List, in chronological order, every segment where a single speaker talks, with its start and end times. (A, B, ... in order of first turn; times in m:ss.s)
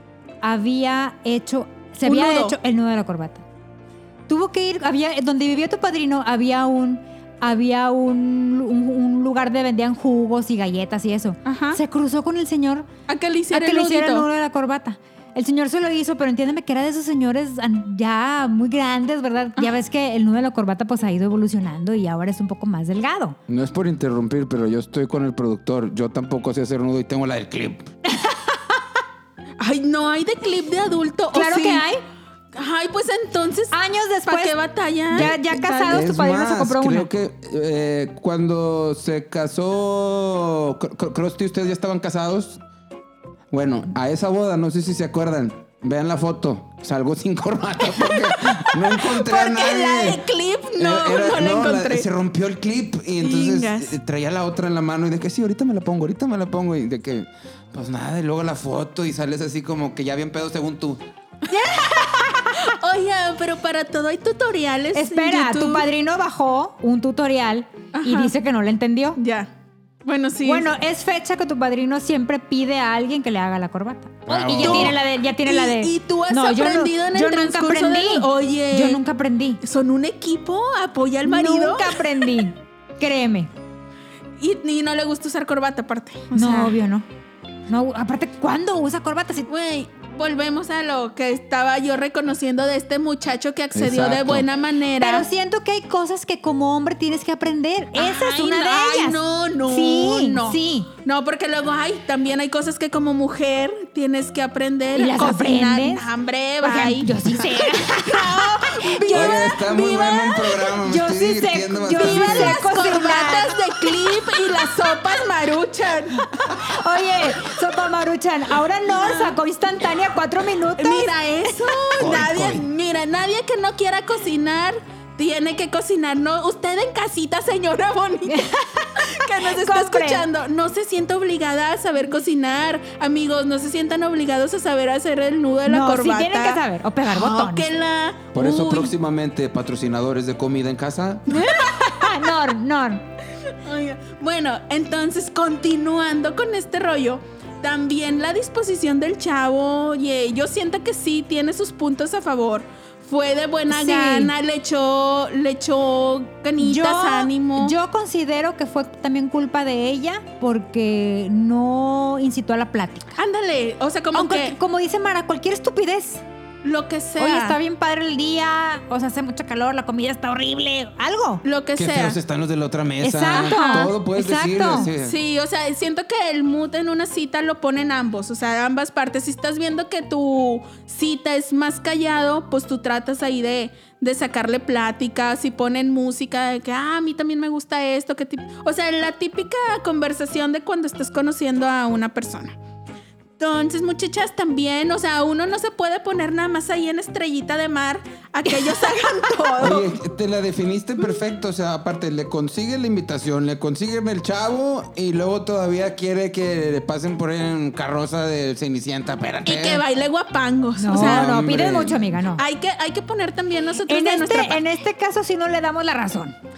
0:00.4-0:03.4 A
0:02.0-0:02.6 B
0:04.3-0:12.9 A
0:11.4-0:11.8 B
0:13.1-0:14.3 B
0:13.5-0:23.4 A
0:23.5-0:27.9 C
0:29.6-0:31.9 B
0:31.3-0:32.0 A
0:32.5-0:36.0 B
0:33.7-0:34.5 A
0:35.1-0:37.1 A
0:35.1-0:42.6 C
0:43.5-0:50.2 C
0:48.3-0:52.0 B
0:50.8-1:01.0 C
0:53.2-0:54.0 B
1:01.5-1:02.7 A
1:01.5-1:05.8 B
1:04.9-1:09.2 A
1:07.9-1:08.3 B
1:09.2-1:09.5 B
1:10.0-1:10.7 B
1:10.4-1:19.6 A
1:14.2-1:15.0 C
1:14.4-1:19.0 B
1:19.6-1:22.0 B
1:21.2-1:23.5 A
1:24.4-1:26.8 B
1:26.3-1:27.0 A
1:27.7-1:29.5 A
1:29.5-1:35.2 B
1:33.7-1:34.4 C
1:35.0-1:40.9 A
1:37.9-1:50.7 B
1:44.9-1:46.0 A
1:46.6-1:49.5 A
1:49.1-1:52.6 C
1:50.8-1:53.6 A
1:51.9-1:56.3 B
1:56.4-2:01.5 A
1:58.9-1:59.4 B
2:00.8-2:18.9 B
2:02.0-2:02.6 C
2:08.3-2:10.2 A
2:15.6-2:17.7 A
2:18.3-2:21.4 C
2:21.3-2:23.0 A
2:21.4-2:22.1 B
2:23.6-2:37.8 B
2:33.7-2:34.3 A
2:36.6-2:43.2 A
2:43.2-2:44.6 B
2:44.1-2:46.2 A
2:46.6-2:47.6 B
2:47.2-2:51.4 A
2:51.4-2:52.2 B
2:51.8-2:55.2 C
2:53.0-2:54.9 A
2:53.3-2:53.9 B
2:54.8-3:12.6 B
3:13.4-3:20.0 B
3:19.6-3:29.8 C
3:29.4-3:31.3 B
3:30.8-3:32.4 A
3:30.9-3:32.2 C
3:32.4-3:34.6 B
3:33.9-3:36.3 A